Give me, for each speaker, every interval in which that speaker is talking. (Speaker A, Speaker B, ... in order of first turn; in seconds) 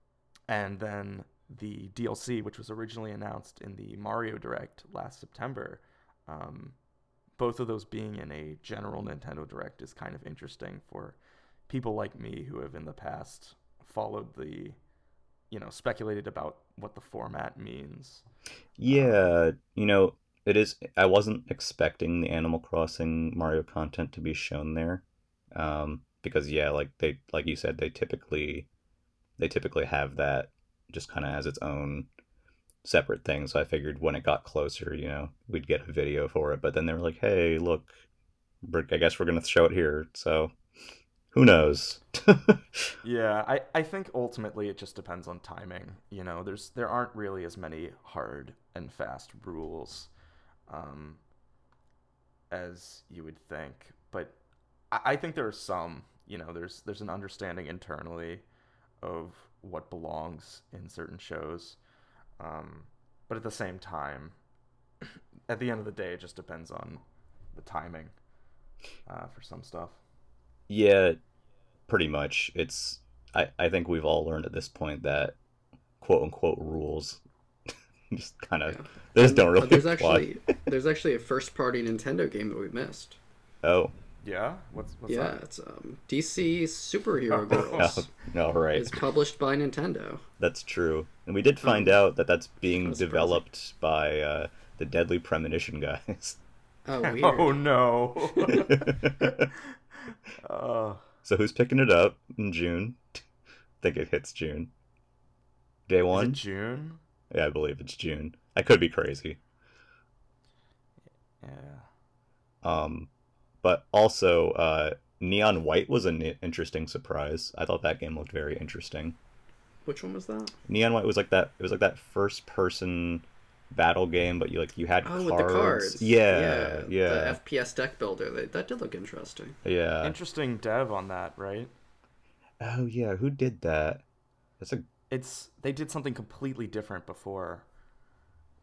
Speaker A: 0.5-6.8, 7.4-14.8, 15.5-18.2, 18.9-19.3, 43.0-50.1, 50.7-51.2, 52.5-54.4, 54.9-58.5, 59.0-61.8, 62.4-64.4, 65.0-67.0, 67.5-68.1, 69.0-70.0, 84.2-85.4, 87.4-88.0, 97.0-99.5, 100.4-101.0, 106.1-107.0, 111.4-111.8, 130.0-131.7, 135.1-137.7
Speaker B: 18.8-28.7, 29.4-32.1, 32.8-38.0, 38.6-40.5, 41.3-42.8, 70.7-71.2, 71.9-75.4, 76.0-77.2, 78.1-80.3, 83.6-83.9, 87.7-89.0, 90.4-96.4, 98.8-99.5, 101.2-103.0, 103.8-104.7, 105.9-106.4, 107.3-109.4, 112.6-113.1, 113.6-119.2, 120.7-127.4, 129.6-130.2, 132.6-134.0, 134.6-134.8
Speaker C: 78.7-83.2, 85.1-88.1, 88.7-90.2, 92.8-93.4, 96.8-97.6, 98.3-98.7, 119.8-120.5, 125.0-129.6